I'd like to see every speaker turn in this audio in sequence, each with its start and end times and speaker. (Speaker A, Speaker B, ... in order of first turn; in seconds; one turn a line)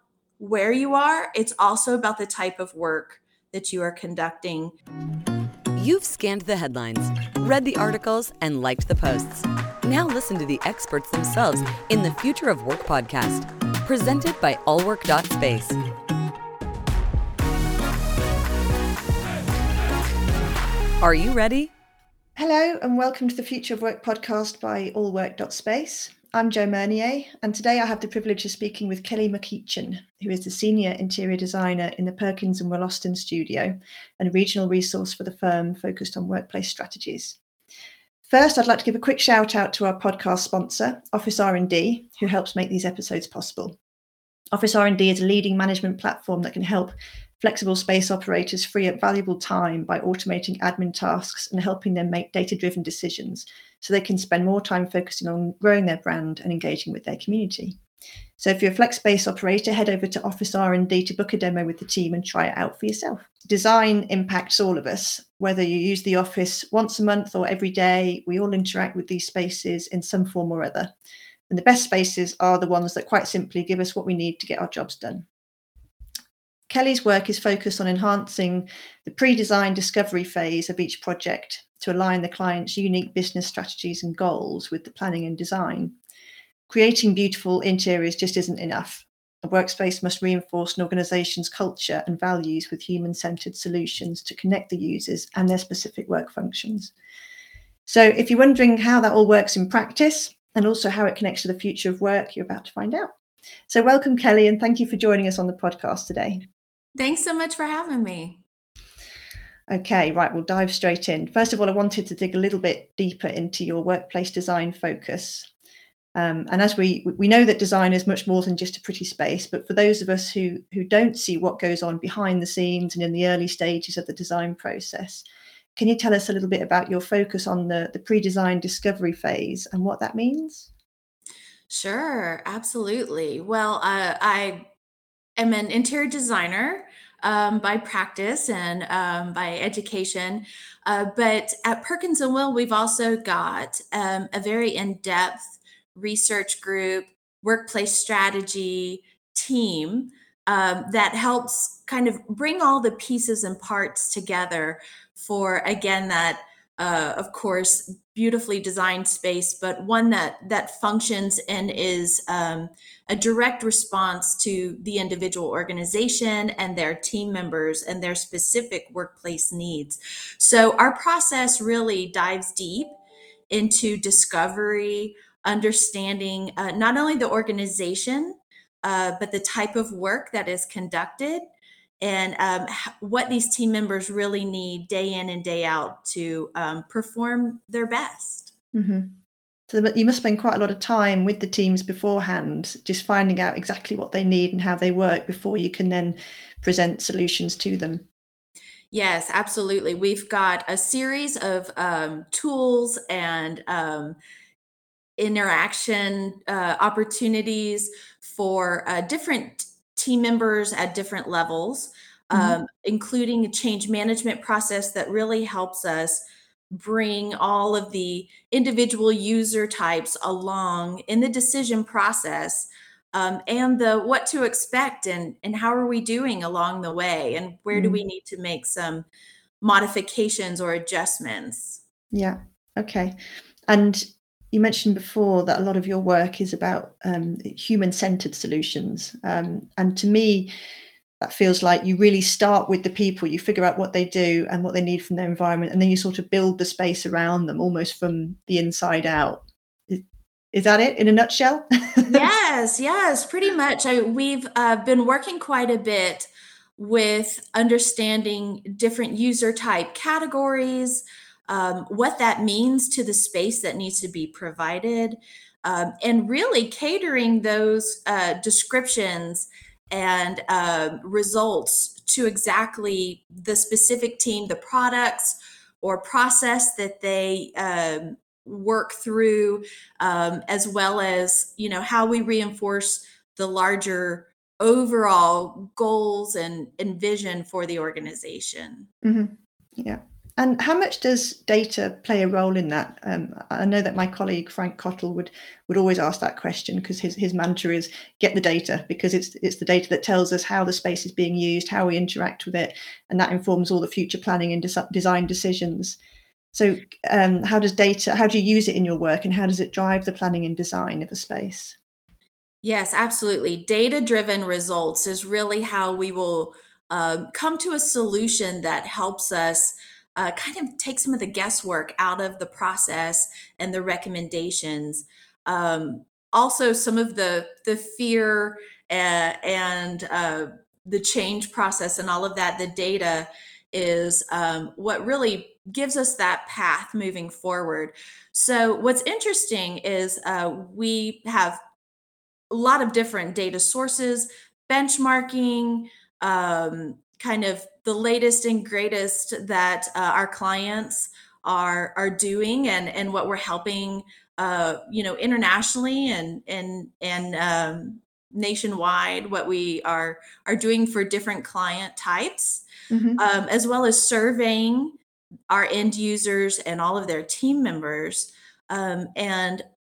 Speaker A: 0.4-4.7
Speaker B: 5.8-15.8
Speaker B: 21.0-21.7
Speaker C: 22.4-37.4
Speaker C: 38.2-43.8
Speaker C: 44.5-57.8
Speaker C: 58.4-70.9
Speaker C: 71.5-75.3
Speaker C: 76.7-86.0
Speaker C: 86.7-96.9
Speaker C: 97.9-103.1
Speaker C: 103.7-106.5
Speaker A: 107.0-108.4
Speaker C: 109.7-115.5
Speaker C: 116.2-130.7
Speaker A: 131.7-134.7
Speaker A: 135.4-172.9
Speaker A: 173.5-181.4
Speaker A: 182.0-188.5
Speaker C: 188.7-189.2
Speaker C: 189.7-198.1
Speaker A: 198.9-204.2
Speaker A: 205.2-229.1
Speaker C: 212.3-212.6
Speaker C: 227.7-228.0
Speaker A: 229.6-231.8
Speaker C: 232.1-240.5
Speaker C: 241.2-252.2
Speaker A: 252.1-288.9
Speaker C: 289.0-306.0
Speaker C: 306.5-311.8
Speaker A: 312.6-341.6
Speaker A: 342.5-362.6
Speaker C: 362.9-363.2
Speaker A: 363.2-365.0
Speaker A: 365.5-369.6